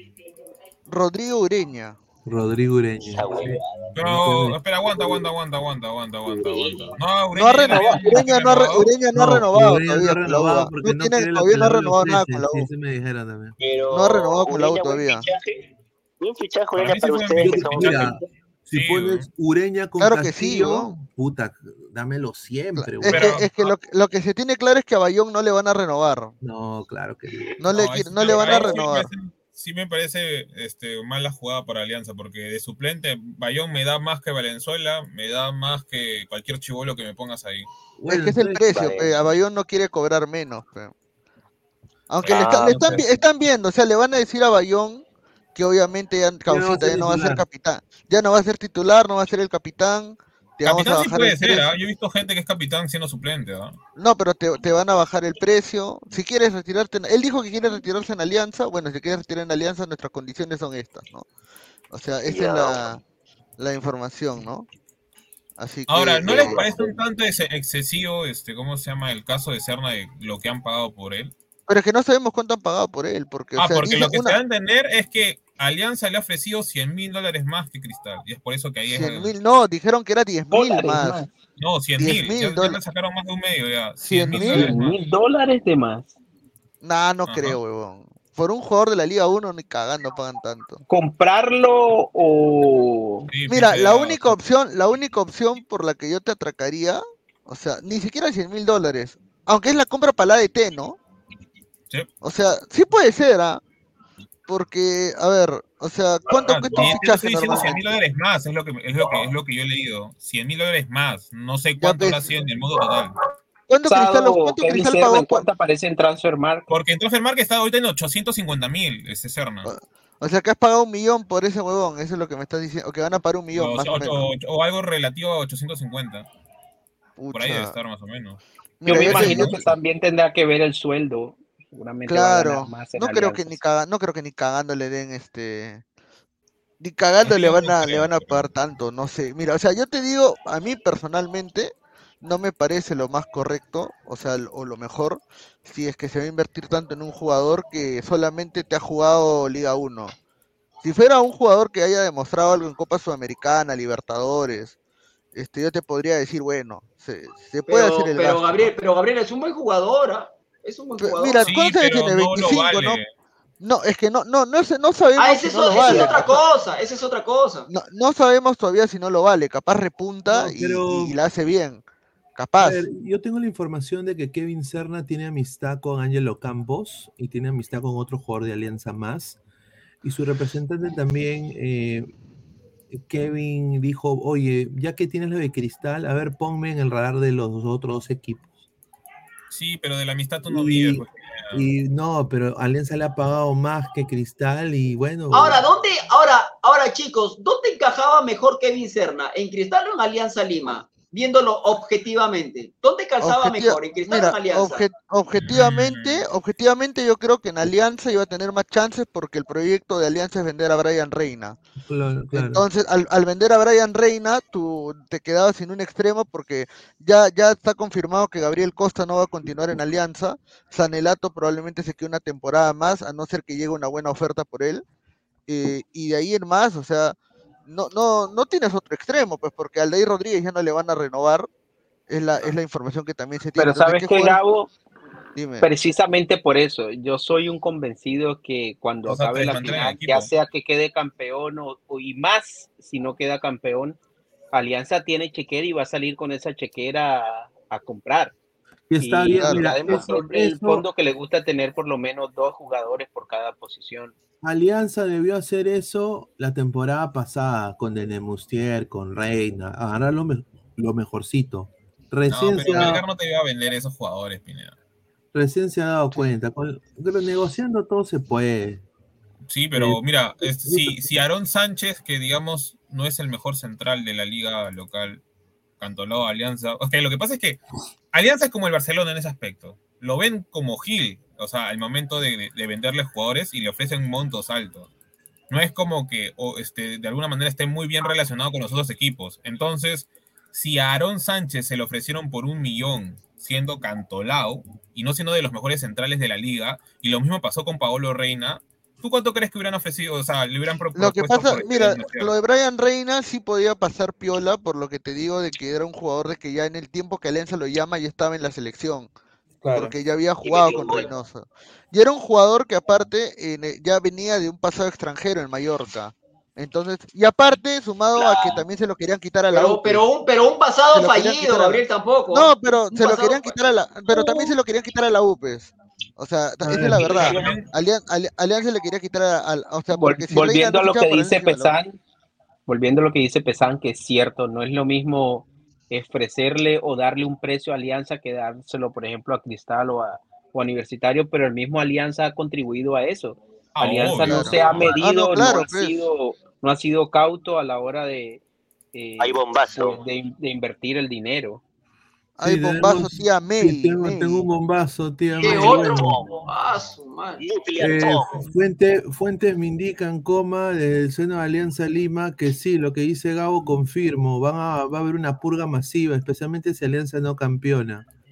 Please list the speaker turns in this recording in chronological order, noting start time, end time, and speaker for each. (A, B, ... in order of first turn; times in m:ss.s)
0:00.9-0:02.0 A
0:02.2-0:03.5 B
0:03.1-0:03.9 C
0:03.3-0:08.9 D
0:04.0-0:04.6 B
0:04.9-0:05.2 C
0:06.2-0:07.0 C
0:07.3-0:12.7 A
0:07.7-0:08.1 B
0:09.1-0:13.6 B
0:13.6-0:15.6 C
0:13.9-0:15.2 A
0:16.2-0:18.2 C
0:16.8-0:18.1 D
0:17.4-0:18.2 B
0:18.7-0:19.3 D
0:18.7-0:23.4 B
0:20.0-0:20.9 A
0:22.8-0:26.3 A
0:23.0-0:23.8 D
0:26.4-0:27.6 B
0:27.6-0:29.1 A
0:27.7-0:37.7 D
0:28.3-0:28.8 B
0:38.0-0:38.6 B
0:38.1-0:40.9 A
0:38.7-0:39.1 C
0:42.1-0:45.0 A
0:42.2-0:43.1 D
0:42.2-0:42.8 C
0:45.5-0:51.7 A
0:46.5-0:47.4 B
0:50.6-0:53.8 D
0:54.0-1:01.3 A
1:01.9-1:03.0 A
1:02.2-1:02.8 C
1:03.6-1:04.7 A
1:05.6-1:06.8 A
1:05.9-1:11.3 D
1:06.3-1:06.9 C
1:11.7-1:14.4 A
1:13.6-1:19.3 D
1:18.9-1:21.2 A
1:20.5-1:21.3 E
1:21.6-1:25.0 D
1:22.0-1:22.8 A
1:24.0-1:24.7 A
1:24.4-1:26.1 E
1:26.8-1:30.8 A
1:27.2-1:27.6 D
1:30.9-1:33.2 E
1:33.2-1:34.4 D
1:33.5-1:41.0 A
1:42.2-1:43.6 A
1:44.5-1:47.9 A
1:46.4-1:53.2 D
1:51.8-1:52.3 A
1:53.7-1:55.4 A
1:53.9-1:56.6 E
1:56.7-1:59.7 D
1:59.6-2:04.2 A
2:03.5-2:06.3 D
2:07.2-2:07.7 A
2:07.3-2:09.7 D
2:08.8-2:09.6 A
2:08.9-2:13.6 E
2:12.1-2:15.8 A
2:16.8-2:30.1 A
2:17.2-2:18.5 D
2:30.8-2:34.7 A
2:35.3-2:38.5 A
2:37.6-2:41.5 F
2:41.0-2:43.0 A
2:41.4-2:43.1 D
2:43.6-2:46.4 A
2:45.2-2:47.7 F
2:47.7-2:51.8 A
2:50.3-2:51.2 B
2:52.4-2:52.8 A
2:52.6-2:59.4 B
3:00.0-3:02.1 B
3:02.9-3:08.5 B
3:09.5-3:11.6 D
3:10.5-3:15.6 B
3:15.3-3:24.9 F
3:23.2-3:31.6 A
3:25.4-3:26.2 D
3:31.8-3:32.6 B
3:32.3-3:44.8 A
3:45.5-3:47.1 A
3:47.6-3:51.5 A
3:52.1-3:54.4 A
3:53.6-3:54.7 E
3:55.3-3:55.7 A
3:55.6-4:04.0 E
3:59.0-4:00.3 D
4:04.5-4:08.3 E
4:08.9-4:10.8 B
4:09.0-4:14.1 E
4:09.4-4:10.1 A
4:14.4-4:23.0 B
4:22.3-4:24.7 D
4:25.3-4:28.8 B
4:29.5-4:35.2 D
4:29.7-4:31.1 B
4:35.8-4:37.6 D
4:38.1-4:44.9 D
4:45.5-5:02.3 D
5:00.9-5:09.1 A
5:09.6-5:09.9 B
5:09.7-5:20.0 A
5:10.4-5:11.1 C
5:19.5-5:23.6 F
5:20.9-5:31.7 A
5:26.6-5:27.0 B
5:26.8-5:27.4 E
5:27.0-5:27.7 D
5:27.1-5:27.4 F
5:29.9-5:32.0 E
5:32.7-5:48.4 E
5:43.7-5:45.0 D
5:44.2-5:46.0 A
5:48.9-5:51.6 E
5:49.2-5:50.0 C
5:52.4-5:54.4 A
5:52.4-5:56.2 B
5:55.4-5:56.4 C
5:55.4-5:57.4 F
5:57.4-5:58.4 C
5:57.8-6:08.0 B